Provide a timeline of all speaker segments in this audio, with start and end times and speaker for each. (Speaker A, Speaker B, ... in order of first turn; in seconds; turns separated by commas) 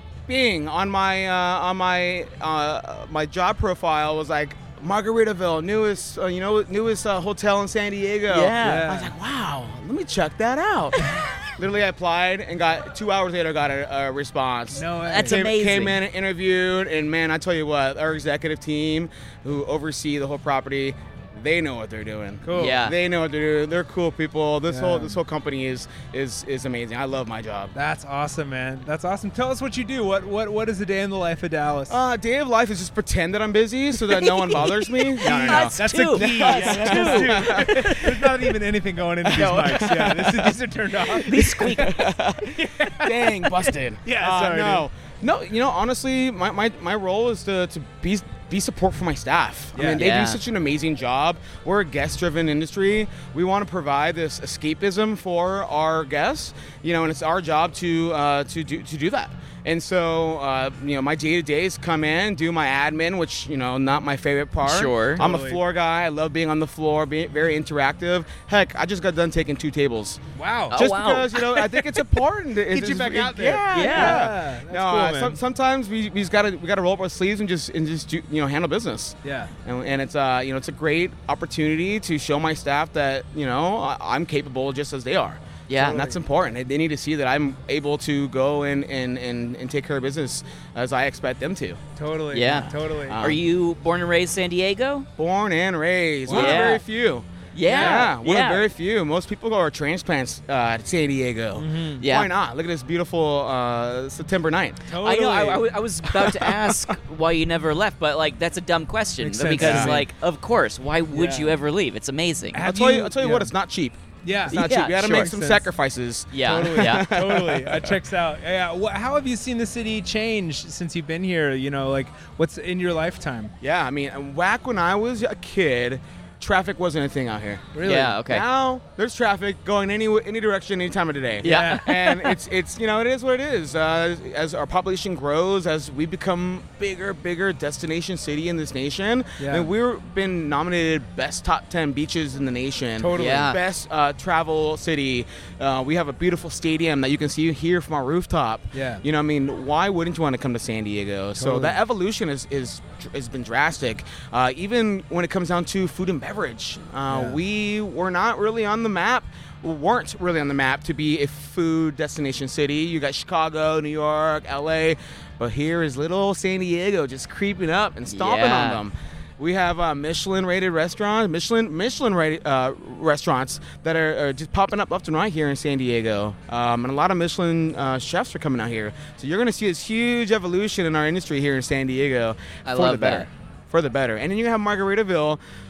Speaker A: 0.3-27.7, Speaker B: 8.3-8.9, Speaker C: 8.6-9.1, Speaker C: 14.7-15.4, Speaker B: 15.1-16.0, Speaker C: 22.4-22.8, Speaker B: 22.6-22.9, Speaker C: 24.7-25.2, Speaker C: 27.7-32.0, Speaker A: 31.9-38.1, Speaker B: 34.1-38.3, Speaker C: 35.2-44.9, Speaker B: 39.3-40.1, Speaker A: 39.3-40.5, Speaker A: 41.1-70.2, Speaker B: 41.2-42.1, Speaker C: 49.7-50.0, Speaker B: 50.0-50.4, Speaker B: 64.6-65.2, Speaker C: 65.2-65.6, Speaker C: 70.3-70.8, Speaker B: 70.7-71.9, Speaker A: 70.7-91.8, Speaker C: 72.7-75.4, Speaker B: 73.7-74.2, Speaker C: 79.2-79.5, Speaker B: 85.7-86.0, Speaker C: 85.9-86.2, Speaker C: 92.0-93.2, Speaker B: 92.3-95.1, Speaker A: 93.1-93.4, Speaker A: 95.2-104.8, Speaker C: 96.2-96.8, Speaker B: 96.3-96.8, Speaker B: 97.5-98.6, Speaker C: 97.7-98.1, Speaker C: 101.5-102.0, Speaker B: 102.0-102.3, Speaker C: 104.9-105.6, Speaker B: 105.0-112.6, Speaker A: 106.1-106.7, Speaker C: 109.2-110.1, Speaker A: 109.6-110.0, Speaker C: 111.1-111.6, Speaker C: 112.5-113.5, Speaker A: 112.6-117.9, Speaker C: 114.2-115.7, Speaker B: 114.5-115.3, Speaker B: 116.3-117.1, Speaker C: 116.5-123.5, Speaker A: 123.6-127.7, Speaker C: 127.7-128.2, Speaker B: 127.8-128.4, Speaker A: 128.2-185.4, Speaker B: 131.4-131.9, Speaker C: 131.4-132.3, Speaker C: 139.4-139.7, Speaker C: 143.0-143.6, Speaker B: 143.1-143.6, Speaker C: 148.7-149.0, Speaker C: 151.4-151.8, Speaker C: 157.1-157.4, Speaker B: 168.1-168.8, Speaker B: 182.6-183.3